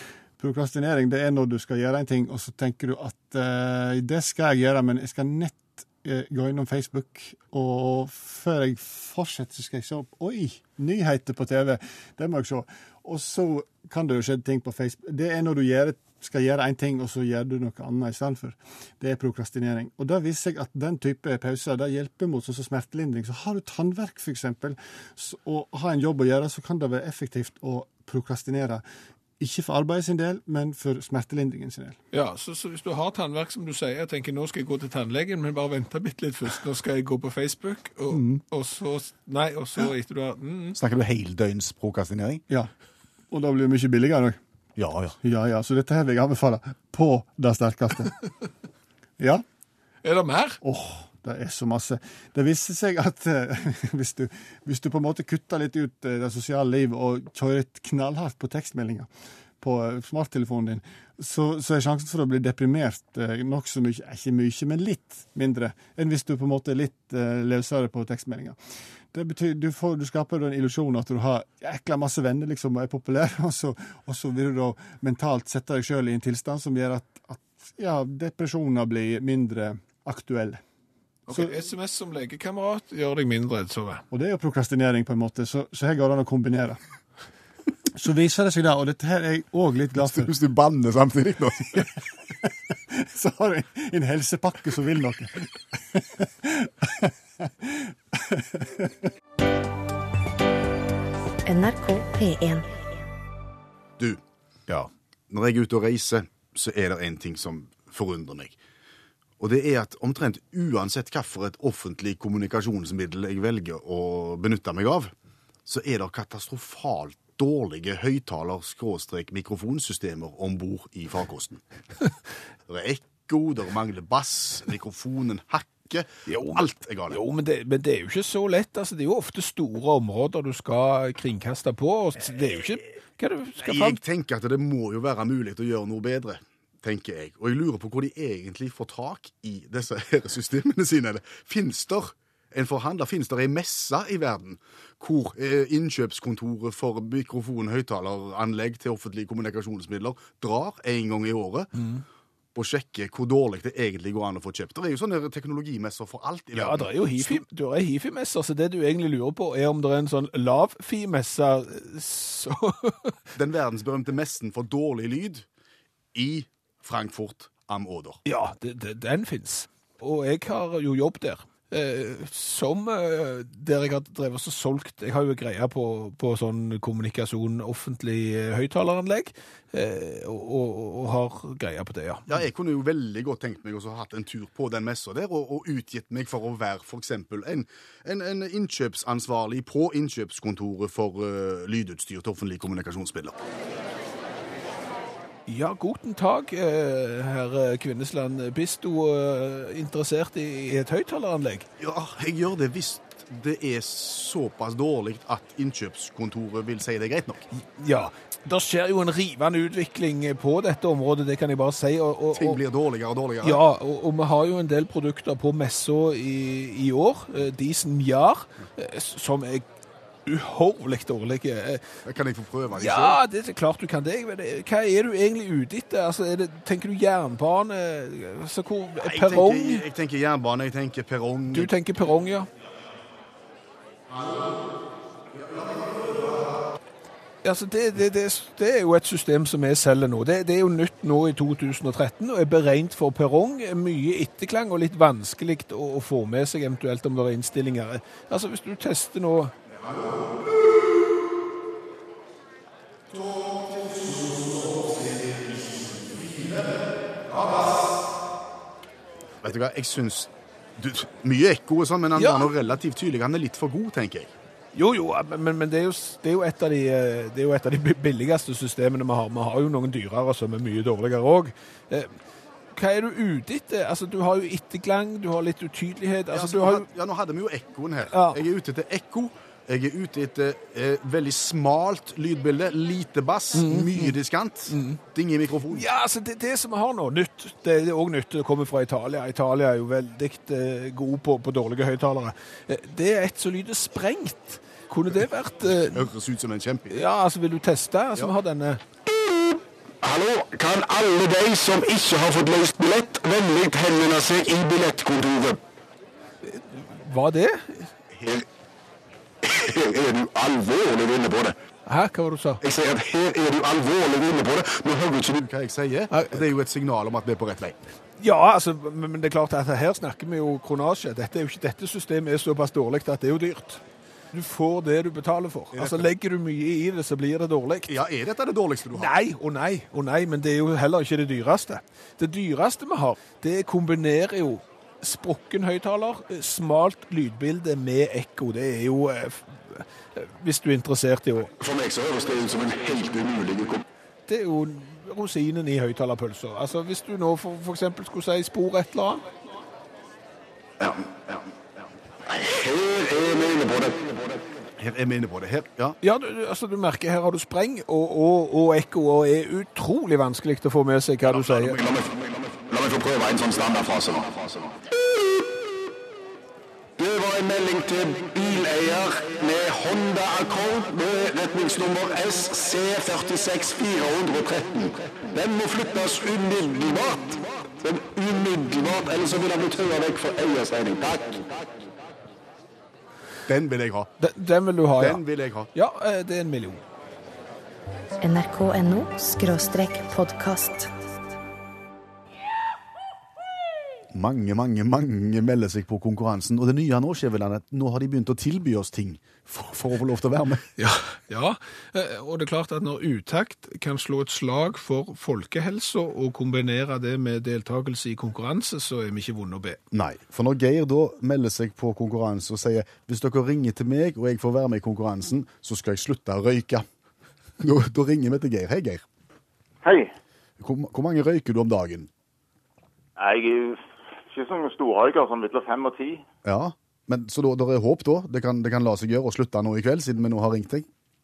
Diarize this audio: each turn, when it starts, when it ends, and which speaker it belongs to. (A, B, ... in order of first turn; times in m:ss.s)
0:00.4-0:28.8 A
0:29.4-0:32.0 A
0:32.1-0:40.8 B
0:38.1-0:38.4 A
0:40.8-0:42.4 C
0:43.3-0:44.4 A
0:44.8-0:45.2 C
0:45.2-0:48.2 A
0:50.0-0:50.6 B
0:50.6-0:59.1 A
0:59.6-1:08.6 A
1:09.1-1:20.6 A
1:21.3-1:24.0 B
1:24.1-1:26.8 A
1:28.0-1:30.3 A
1:30.0-1:31.9 C
1:32.7-1:39.0 A
1:41.4-1:42.7 D
1:44.0-1:48.6 C
1:49.4-1:55.1 C
1:55.6-2:01.6 C
2:02.7-2:07.2 C
2:06.3-2:14.0 B
2:13.6-2:31.7 C
2:32.6-2:37.4 C
2:36.6-2:43.2 B
2:43.4-2:45.5 C
2:46.1-2:48.2 C
2:48.2-3:02.3 B
3:02.3-3:13.4 C
3:15.5-3:21.7 B
3:21.8-3:27.5 C
3:27.6-3:32.6 B
3:32.3-3:33.6 C
3:33.4-3:39.6 B
3:40.2-3:41.9 B
3:42.0-3:43.2 C
3:42.8-3:49.8 B
3:49.0-3:51.7 C
3:51.5-3:52.5 B
3:55.4-3:56.5 C
3:57.4-4:09.6 B
4:09.8-4:10.3 C
4:13.3-4:14.4 C
4:14.2-4:15.0 B
4:15.9-4:16.6 C
4:19.4-4:24.3 C
4:22.2-4:22.5 B
4:24.7-4:32.1 B
4:32.7-4:36.9 B
4:36.3-4:45.9 C
4:38.1-4:38.4 B
4:43.6-4:44.2 B
4:44.7-4:45.0 B
4:45.7-4:56.1 B
4:55.9-4:57.0 C
4:56.9-4:58.8 B
4:59.2-5:05.6 E
5:06.4-5:07.9 B
5:09.4-5:11.6 E
5:11.9-5:12.6 B
5:12.6-5:15.4 E
5:15.4-5:17.8 C
5:16.1-5:16.4 B
5:18.2-5:23.8 B
5:24.3-5:27.9 B
5:25.7-5:26.1 C
5:27.9-5:29.1 C
5:28.9-5:41.5 B
5:41.6-5:43.8 E
5:44.3-5:49.2 B
5:50.8-5:51.3 C
5:52.3-5:54.4 E
5:54.8-5:56.0 C
5:56.0-6:01.8 B
6:01.3-6:04.8 E
6:07.0-6:21.7 E
6:23.5-6:24.1 C
6:24.2-6:25.2 B
6:25.0-6:25.7 C
6:25.7-6:26.8 B
6:28.2-6:30.9 D
6:34.1-6:40.6 C
6:40.8-6:49.8 B
6:49.9-6:56.8 C
6:57.6-6:59.0 C
6:59.8-7:00.1 F
7:00.6-7:02.1 C
7:03.2-7:06.2 F
7:06.4-7:10.9 C